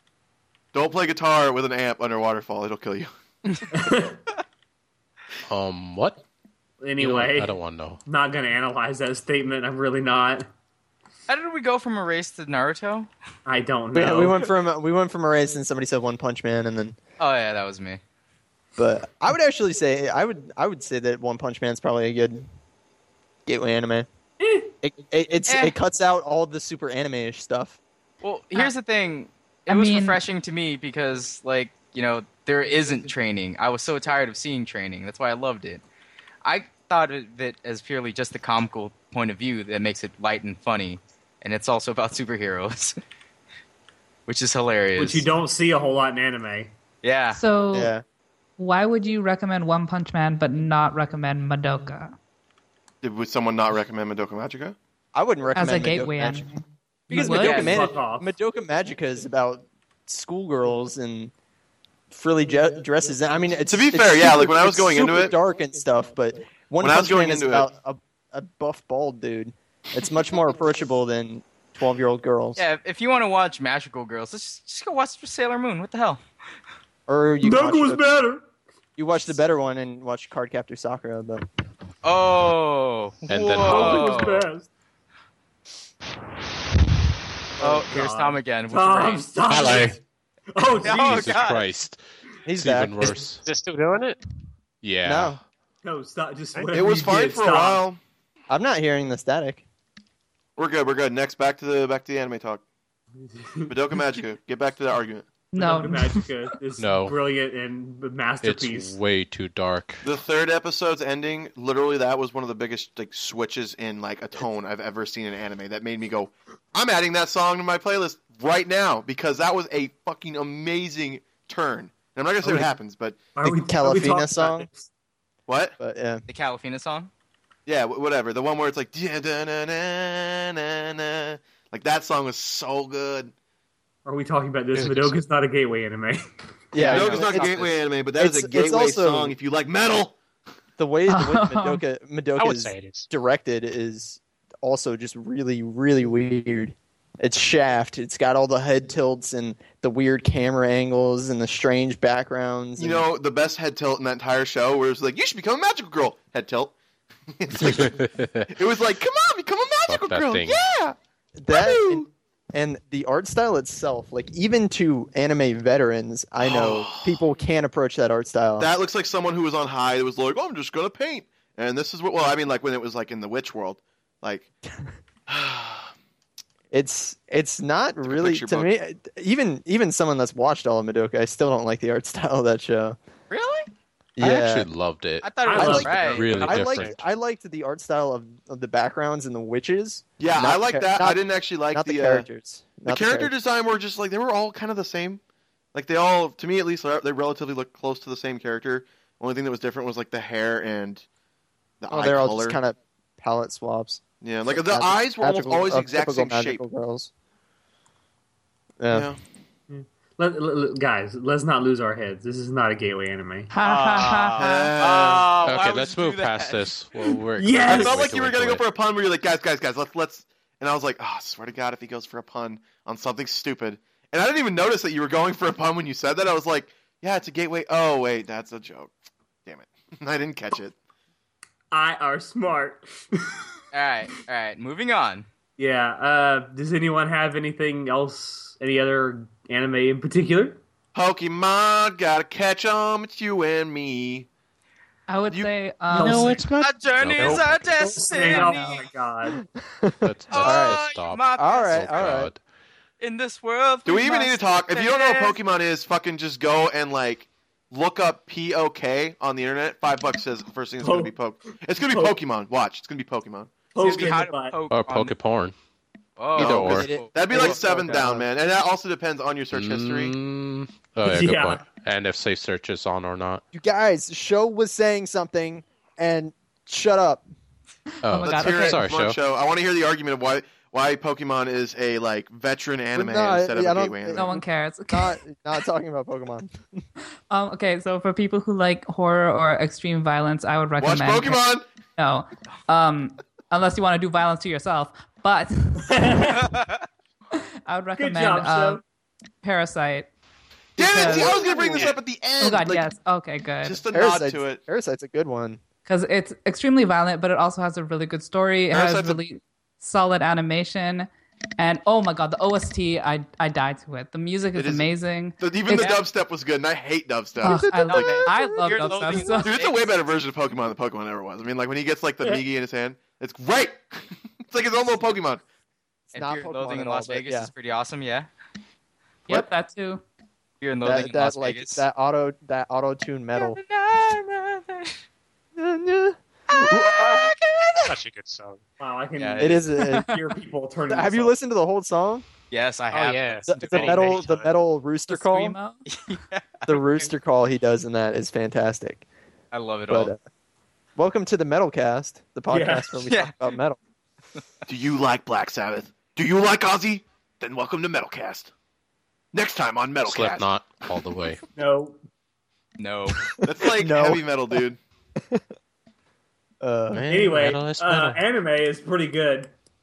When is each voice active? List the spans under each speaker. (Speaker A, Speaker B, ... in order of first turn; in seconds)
Speaker A: 0.7-3.1, 53.0-54.8, 63.7-65.3, 66.8-67.7, 96.7-98.0, 100.6-102.6, 103.7-105.3, 110.0-123.2, 125.5-125.8, 127.7-133.3, 136.8-140.2, 152.8-156.7, 157.3-160.9, 161.5-162.1, 166.4-167.2, 168.6-174.5, 175.3-175.9, 178.1-178.7, 190.2-192.3, 192.9-195.2, 195.7-201.1, 201.8-202.6, 204.2-206.6, 208.9-209.2, 214.4-215.3, 217.7-228.9, 229.4-230.7, 240.9-244.3, 253.8-264.1, 266.4-270.1, 278.2-284.3, 290.8-291.7, 300.8-302.9, 303.6-304.6, 308.7-309.2, 314.6-318.2, 319.4-325.4, 354.7-358.5, 359.3-360.5, 363.4-364.8
Speaker B: 3.7-4.2, 6.8-7.5, 8.1-10.5, 13.4-14.5, 45.0-46.7, 57.1-58.3, 77.4-78.5, 83.5-84.7, 87.6-90.0, 90.5-91.3, 95.8-97.8, 103.2-103.7, 105.5-109.0, 123.3-124.9, 134.1-136.9, 185.4-186.3, 209.7-213.5, 217.4-218.1, 231.7-233.4, 235.6-240.6, 245.9-246.4, 247.8-249.4, 260.8-261.1, 261.9-262.1, 263.7-264.6, 271.0-271.6, 295.8-296.5, 298.0-298.8, 301.1-301.9, 338.8-341.3, 352.5-352.9, 361.6-362.0, 367.1-369.5
Speaker C: 5.5-6.2, 7.0-8.0, 83.3-84.2, 89.4-90.0, 90.9-92.0, 92.6-93.4, 94.8-95.4, 106.8-107.2, 108.4-110.0, 134.8-135.2, 157.6-158.5, 159.9-160.6, 184.2-187.0, 215.4-218.6, 245.9-248.1, 250.0-252.4, 264.7-265.5, 266.4-266.9, 269.5-273.4, 278.0-279.2, 360.0-361.4, 366.9-368.2
Speaker D: 11.3-13.1, 17.2-18.0, 25.5-25.7, 28.2-35.8, 36.4-43.0, 44.3-45.3, 47.0-47.4, 72.6-76.2, 82.0-84.5, 87.6-89.4, 90.8-91.7, 126.3-127.1, 136.8-137.8, 183.3-183.7, 185.2-186.7, 213.6-216.7, 233.7-235.3, 246.6-248.9, 250.3-252.1, 253.0-255.4, 263.8-265.2, 266.2-267.4, 296.5-296.8, 315.7-316.0, 317.9-320.0, 326.1-328.3, 330.6-331.9, 333.4-335.0, 336.5-337.9, 339.2-339.6, 342.5-344.3, 345.9-346.8, 349.5-350.1, 353.0-353.3, 362.8-363.4
Speaker E: 13.9-17.0, 18.8-22.5, 23.4-24.1, 24.8-27.8, 47.7-48.0, 55.1-56.5, 57.1-61.3, 62.1-72.6, 77.1-78.0, 79.0-81.5, 92.5-93.2, 95.0-95.4, 98.5-99.6, 123.4-124.7, 125.8-126.2, 136.7-139.4, 140.8-153.1, 161.4-168.7, 176.7-183.0, 184.2-184.7, 185.6-193.3, 201.9-207.1, 208.8-209.1, 249.6-250.8, 251.4-252.3, 266.4-268.3, 273.5-277.2, 282.9-286.8, 303.9-305.6, 317.4-318.1, 326.1-327.5, 330.8-333.6, 335.6-337.0, 339.4-340.1, 340.9-342.2, 343.4-345.6, 346.6-349.0, 349.9-350.2, 350.9-353.8, 363.6-364.6, 366.6-367.1
Speaker F: 29.7-30.2, 47.3-47.9, 48.6-52.1, 55.5-57.7, 105.5-106.2, 141.1-141.8, 213.5-214.7, 245.1-246.5, 248.3-248.8, 278.0-278.9, 284.1-285.2, 287.3-296.1, 297.7-298.8, 299.4-300.1, 300.8-301.4, 302.4-303.8, 305.9-311.1, 311.6-315.9, 317.4-319.5, 329.3-330.0, 339.8-340.2, 345.1-345.8
Speaker G: 93.4-94.2, 142.4-143.1, 337.9-338.6, 342.9-344.5